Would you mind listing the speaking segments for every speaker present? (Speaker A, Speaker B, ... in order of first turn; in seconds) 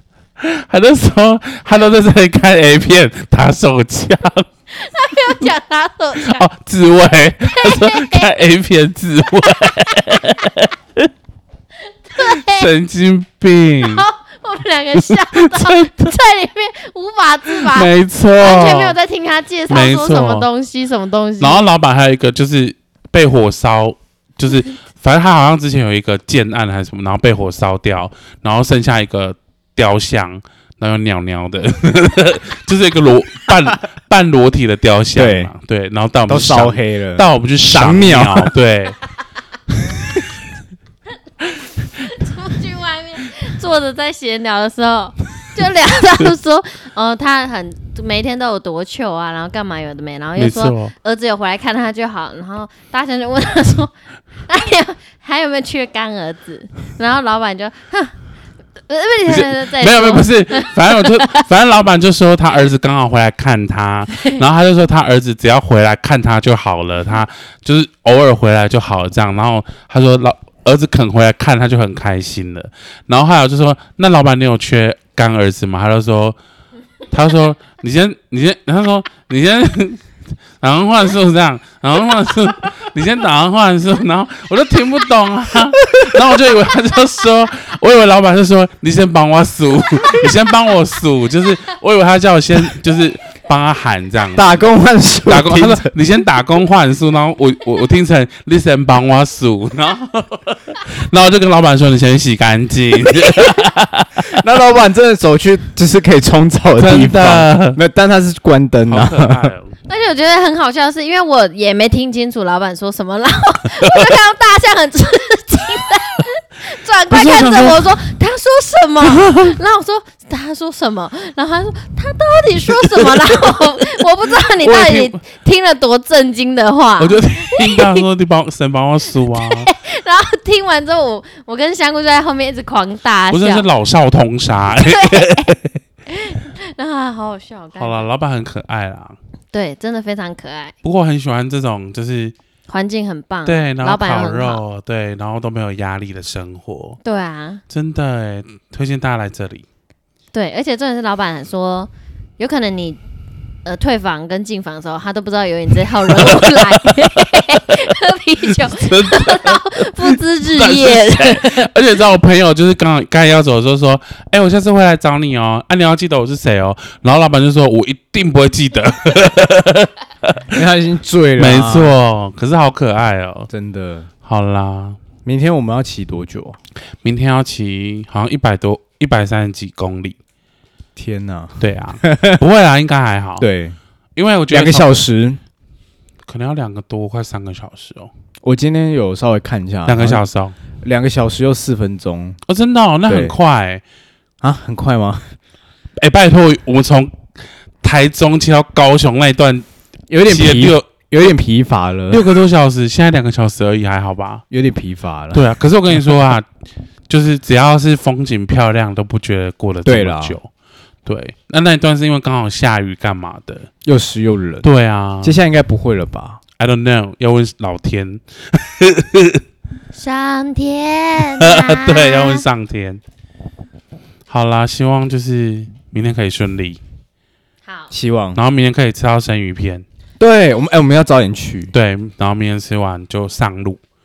Speaker A: 0.4-4.5, 6.2-11.1, 12.2-14.1, 14.9-16.1, 17.5-19.0, 19.7-20.5, 21.4-39.0, 50.4-50.9, 59.3-76.4, 77.1-80.0, 80.6-94.5, 95.3-104.3, 106.8-107.8, 108.9-109.7, 117.1-118.0, 119.1-119.5, 122.7-124.0, 124.6-125.2, 127.0-129.7, 133.3-135.8, 137.8-139.2, 140.8-142.3, 143.4-147.0, 147.7-149.7, 156.0-157.6, 158.6-170.6, 171.4-173.5, 174.2-175.0, 177.0-180.2, 181.6-183.5, 184.2-185.0, 186.3-188.1, 189.9-190.6, 192.5-193.8, 196.0-197.2, 197.8-199.7, 200.3-200.9, 202.1-204.4, 205.3-206.5, 207.1-210.5, 211.1-213.7, 214.6-215.4, 216.6-219.4, 221.4-223.0, 224.3-226.8, 228.3-229.8, 231.7-233.8
Speaker B: 4.7-6.5, 7.5-8.3, 9.6-10.3, 12.1-12.7, 13.8-21.6, 41.9-53.9, 54.5-58.2, 58.9-61.4, 109.9-128.1, 129.2-133.7, 134.8-135.5, 136.1-138.1, 139.5-140.7, 142.7-144.6, 147.0-147.6, 150.3-153.0, 153.7-161.7, 219.9-222.4, 227.7-227.9
Speaker C: 35.1-35.5, 36.3-38.5, 94.3-95.9, 104.3-109.5, 170.5-172.0, 173.5-174.1, 175.2-176.6, 181.0-182.4, 183.4-183.8, 184.5-185.4, 188.4-190.2, 190.8-192.4, 193.1-193.4, 194.4-195.3, 200.1-202.2, 204.5-205.5, 209.8-210.4, 213.8-214.7, 215.2-216.4, 227.9-228.4, 230.2-231.7